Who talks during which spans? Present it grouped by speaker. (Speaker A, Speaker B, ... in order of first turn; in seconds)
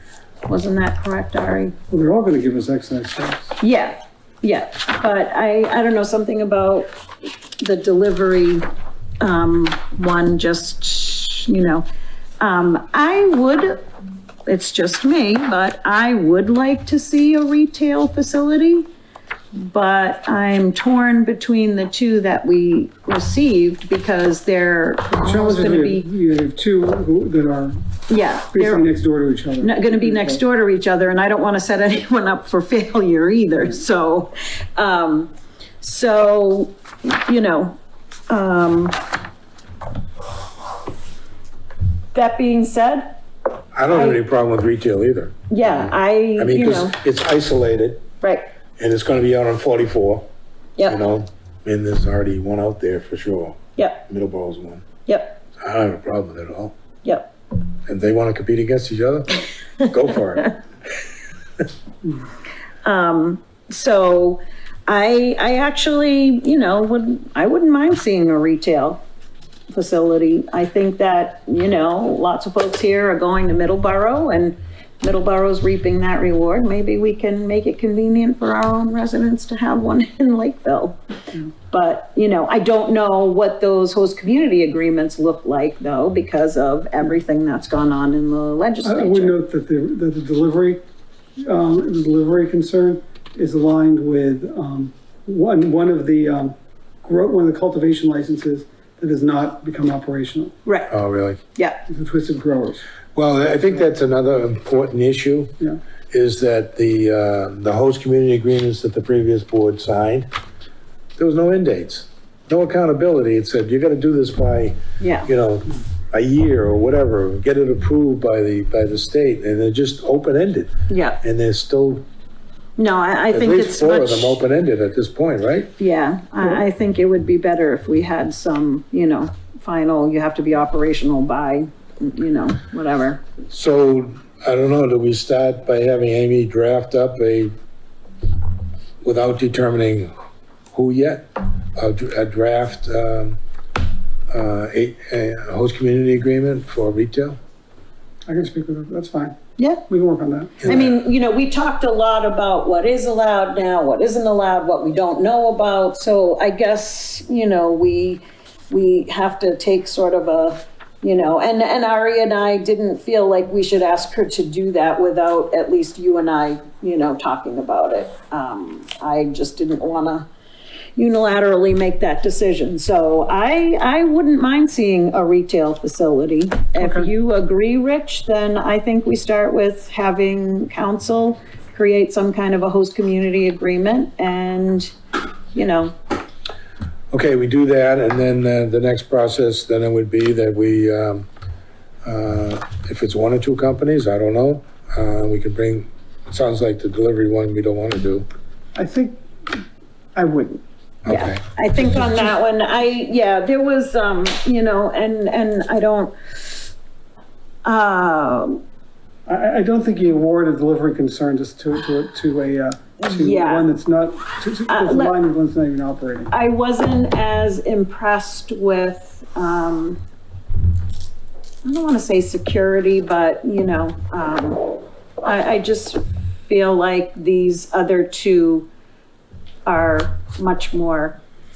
Speaker A: 0.5-1.7, 3.6-6.9, 7.6-8.7, 9.2-11.8, 12.4-13.8, 14.4-18.9, 19.5-26.1, 28.1-28.9, 29.6-37.8, 38.3-39.0, 42.1-43.1, 43.9-44.2, 45.5-47.0, 48.2-48.5, 55.0-55.4, 57.0-57.3, 62.8-69.0, 69.7-81.0, 81.7-89.3, 100.6-100.9, 115.0-115.3, 120.9-121.2, 122.8-124.4, 125.8-133.2, 149.6-149.8, 150.6-170.3, 170.9-184.9, 185.5-185.9, 201.1-206.2, 207.6-208.6, 213.0-213.7, 214.7-215.2, 216.3-220.0, 221.6-228.7, 229.7-231.2
Speaker B: 1.9-3.5, 25.2-27.8, 28.5-30.4, 88.8-90.8, 91.4-100.5, 101.9-102.8, 148.3-149.4, 149.9-150.6, 176.8-177.1, 198.7-199.6, 200.1-200.6, 201.8-202.3, 209.3-216.3
Speaker C: 43.7-48.0, 48.8-50.3, 50.9-54.9, 55.6-56.7, 57.9-60.6, 100.9-101.4, 103.1-105.5, 106.1-110.3, 111.2-122.0, 123.3-125.7, 133.5-137.5, 139.0-140.1, 140.7-143.4, 144.3-147.4, 150.6-151.0, 187.1-191.3, 192.0-198.3, 201.0-201.9